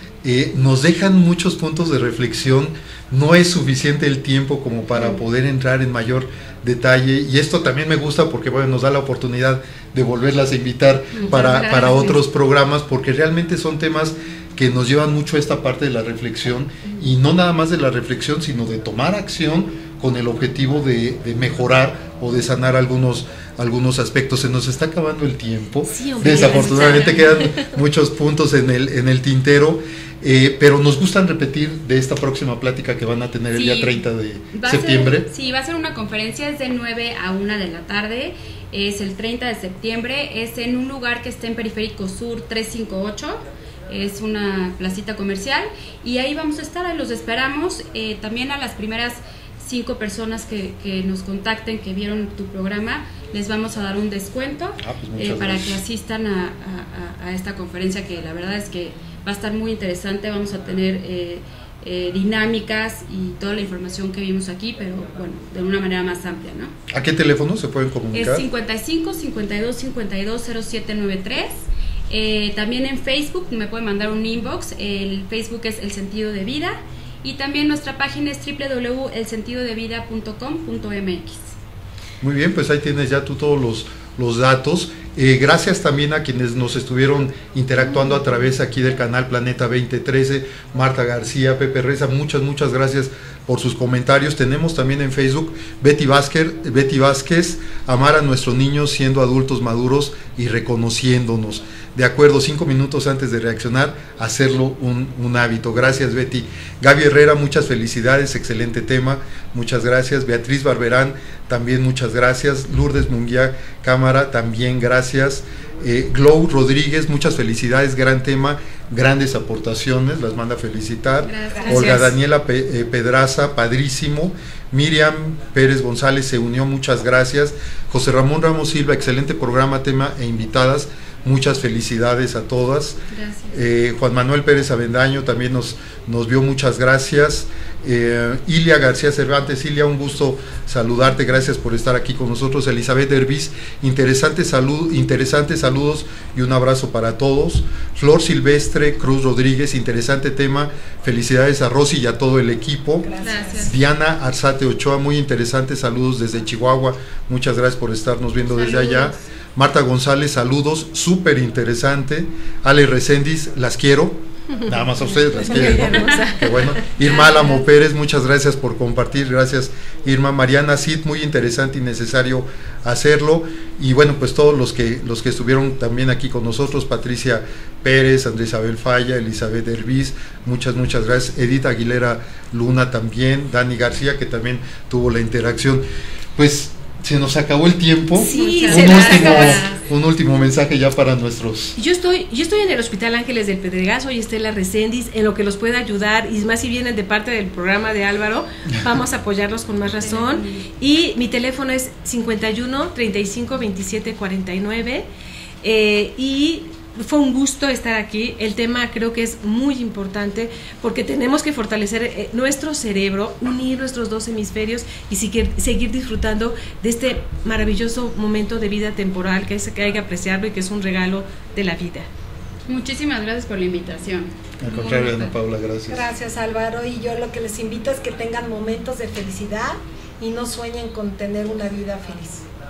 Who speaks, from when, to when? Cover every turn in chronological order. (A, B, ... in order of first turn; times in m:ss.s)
0:00.2-0:35.3 A
0:11.1-0:12.2 B
0:25.9-0:27.7 C
0:26.5-0:26.9 B
0:33.5-1:06.7 B
0:54.8-0:55.8 A
1:06.9-1:08.4 A
1:08.1-1:21.5 B
1:22.2-2:13.0 A
2:01.2-2:02.2 B
2:01.6-2:02.0 D
2:13.1-2:13.6 B
2:13.5-3:05.8 A
2:33.0-2:33.7 D
2:33.2-2:33.7 B
2:38.5-2:39.2 B
2:44.6-2:47.4 C
3:06.4-3:11.8 A
3:08.2-3:09.6 C
3:08.2-3:09.8 B
3:08.9-3:09.3 D
3:11.8-3:25.0 C
3:20.0-3:20.7 B
3:25.6-3:42.1 C
3:42.7-3:45.3 B
3:44.6-3:46.0 A
3:45.9-3:52.4 D